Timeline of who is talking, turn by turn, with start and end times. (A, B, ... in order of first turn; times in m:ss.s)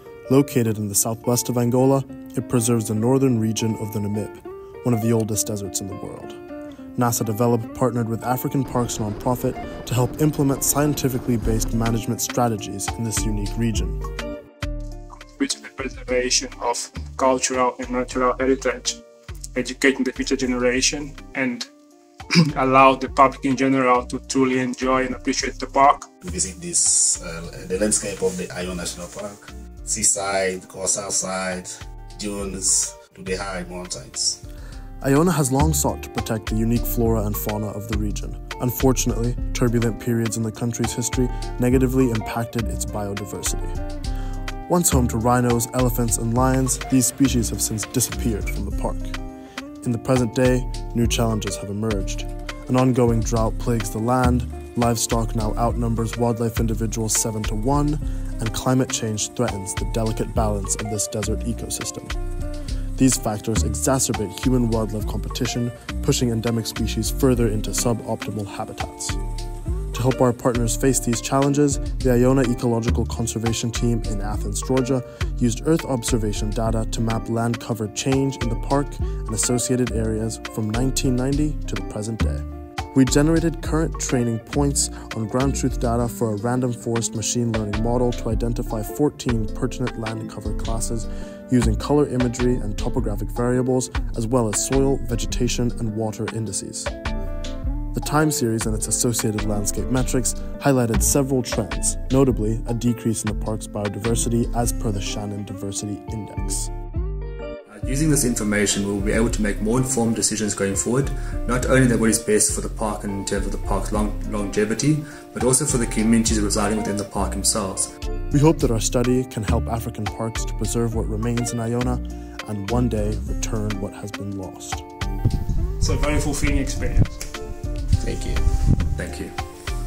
0:00.3-0:06.4 A
0:07.0-0:14.0 A
0:15.4-0:19.0 B
0:19.5-0:21.7 B
0:22.5-0:26.1 B
0:26.2-0:34.4 C
0:35.0-0:43.7 A
0:44.7-0:49.2 A
0:49.8-1:02.1 A
1:03.0-1:09.2 A
1:09.9-1:36.9 A
1:37.9-1:46.7 A
1:47.7-1:57.9 D
1:58.3-2:04.8 A
2:05.8-2:07.1 B
2:08.0-2:08.4 C
2:09.0-2:09.3 D